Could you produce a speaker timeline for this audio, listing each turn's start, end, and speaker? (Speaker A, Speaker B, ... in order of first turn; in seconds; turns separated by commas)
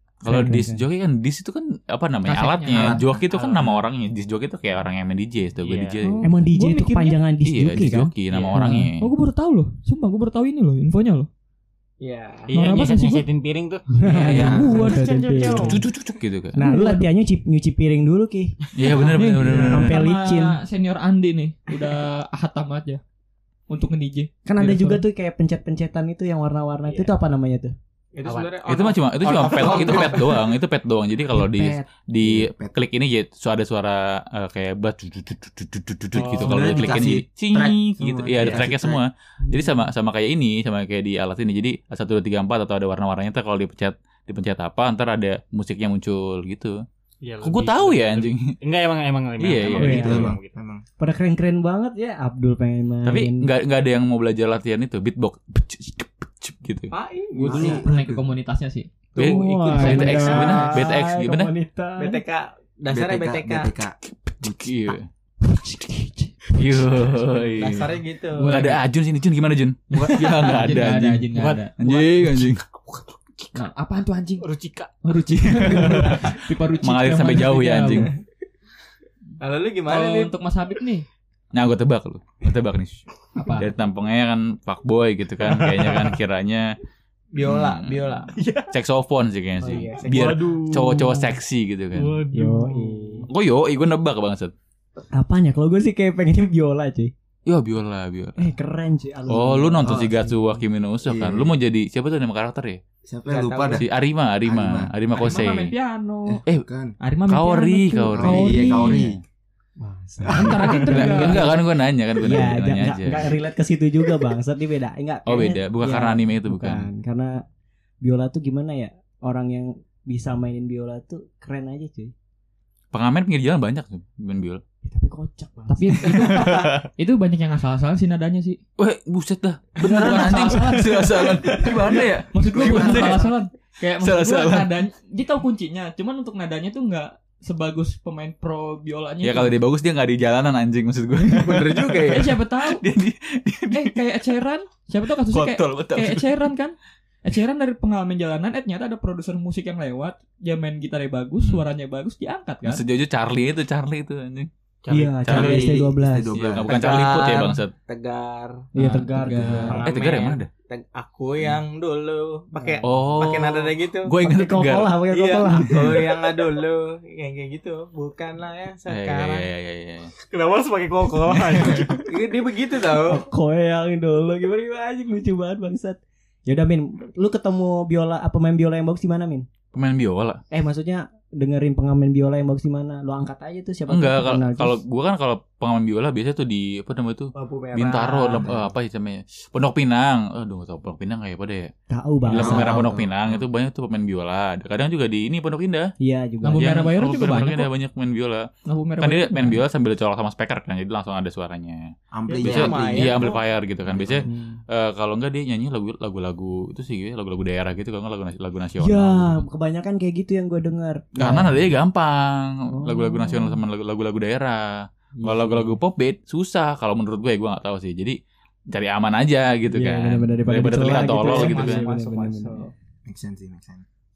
Speaker A: 0.2-6.3, Speaker B: 0.2-0.8, Speaker C: 2.2-3.0, Speaker D: 2.7-3.2, Speaker E: 3.3-3.8, Speaker E: 5.6-6.0, Speaker C: 6.0-7.2, Speaker B: 6.2-8.9, Speaker A: 7.4-9.1, Speaker E: 8.3-8.6, Speaker C: 9.0-11.3, Speaker F: 12.0-12.5, Speaker E: 12.5-15.1, Speaker C: 12.5-13.3, Speaker B: 14.0-15.8, Speaker C: 14.0-15.8, Speaker D: 14.3-14.9, Speaker A: 15.6-16.6, Speaker B: 16.5-20.6, Speaker C: 16.6-17.1, Speaker A: 18.7-20.0, Speaker C: 19.0-23.0, Speaker C: 23.7-25.0, Speaker B: 24.4-27.7, Speaker F: 28.1-30.5, Speaker E: 28.2-28.6, Speaker A: 28.6-46.8, Speaker B: 31.3-31.9, Speaker D: 32.2-32.8, Speaker E: 36.1-37.1, Speaker D: 36.3-39.0, Speaker E: 38.4-38.7, Speaker E: 47.2-50.6, Speaker A: 47.4-48.6, Speaker A: 49.4-50.3, Speaker D: 49.7-50.8, Speaker B: 49.8-50.4, Speaker B: 51.0-53.5, Speaker A: 53.0-56.9, Speaker F: 56.9-57.8, Speaker D: 57.4-58.2, Speaker C: 57.5-58.9, Speaker A: 59.1-61.5, Speaker F: 59.2-60.6, Speaker B: 59.2-62.2, Speaker C: 59.6-60.8, Speaker F: 62.0-63.7, Speaker D: 62.9-64.7, Speaker A: 64.0-65.1, Speaker C: 65.4-66.4, Speaker A: 66.5-72.6, Speaker F: 67.5-68.6, Speaker C: 68.3-68.8, Speaker C: 69.9-71.7, Speaker E: 71.3-73.6, Speaker C: 73.5-74.5, Speaker E: 74.4-74.9, Speaker C: 75.0-78.1, Speaker A: 75.3-78.1, Speaker F: 79.4-80.3, Speaker C: 79.9-81.0, Speaker A: 81.5-83.0, Speaker C: 83.3-83.7, Speaker A: 83.6-86.7, Speaker E: 85.6-86.1, Speaker F: 87.3-88.3, Speaker A: 87.4-92.2, Speaker E: 88.3-88.7, Speaker F: 89.6-90.4, Speaker E: 89.8-91.3, Speaker E: 91.9-93.2, Speaker B: 92.3-93.3, Speaker A: 93.2-94.5, Speaker B: 95.1-97.1, Speaker A: 97.5-98.5, Speaker B: 98.4-100.6, Speaker A: 99.3-102.8, Speaker D: 99.8-100.2, Speaker D: 101.0-101.5, Speaker D: 103.0-103.9, Speaker F: 103.3-103.8, Speaker A: 103.8-105.7, Speaker D: 104.4-104.9, Speaker C: 105.1-106.4, Speaker D: 106.2-107.0, Speaker C: 107.0-109.1, Speaker A: 107.3-109.2, Speaker D: 108.1-109.2, Speaker B: 109.8-117.4, Speaker D: 110.3-110.6, Speaker C: 110.3-111.5, Speaker A: 110.8-113.3, Speaker A: 115.2-116.9, Speaker B: 118.0-122.1, Speaker A: 122.9-124.6, Speaker B: 124.8-126.3, Speaker C: 125.7-128.6, Speaker A: 126.0-126.9, Speaker A: 128.8-133.4, Speaker C: 129.8-131.3, Speaker B: 129.9-131.9, Speaker C: 132.3-139.6, Speaker A: 134.0-134.8, Speaker A: 139.2-144.0, Speaker F: 141.2-142.3, Speaker C: 142.1-142.9, Speaker C: 143.7-152.8, Speaker A: 145.3-146.3, Speaker A: 151.4-151.7, Speaker A: 152.6-154.5, Speaker E: 154.8-155.8, Speaker B: 154.9-156.3, Speaker A: 155.2-155.6, Speaker D: 155.3-156.8, Speaker A: 156.3-157.7, Speaker F: 156.7-158.7, Speaker B: 158.7-159.9, Speaker C: 158.8-159.8, Speaker F: 159.6-164.2, Speaker A: 159.8-160.5, Speaker B: 162.5-162.8, Speaker A: 162.8-165.0, Speaker B: 164.2-166.3, Speaker F: 165.1-169.5, Speaker A: 168.9-170.1, Speaker E: 170.2-172.0, Speaker A: 171.3-172.0, Speaker F: 172.0-173.2, Speaker B: 173.0-179.5, Speaker A: 179.7-180.4, Speaker B: 180.5-184.8, Speaker A: 183.9-191.7, Speaker F: 187.3-188.6, Speaker B: 191.9-193.0, Speaker A: 192.3-195.9, Speaker D: 192.3-193.5, Speaker B: 196.0-196.7, Speaker C: 196.4-197.7, Speaker A: 196.5-209.4, Speaker C: 198.7-199.6, Speaker D: 202.1-204.3, Speaker F: 202.3-203.4, Speaker B: 204.2-204.6, Speaker B: 208.8-211.5, Speaker D: 211.2-211.7, Speaker A: 211.2-218.2, Speaker B: 212.7-213.6, Speaker B: 215.2-215.8, Speaker A: 218.7-221.8, Speaker B: 219.7-222.7, Speaker F: 220.8-222.7, Speaker D: 223.1-223.8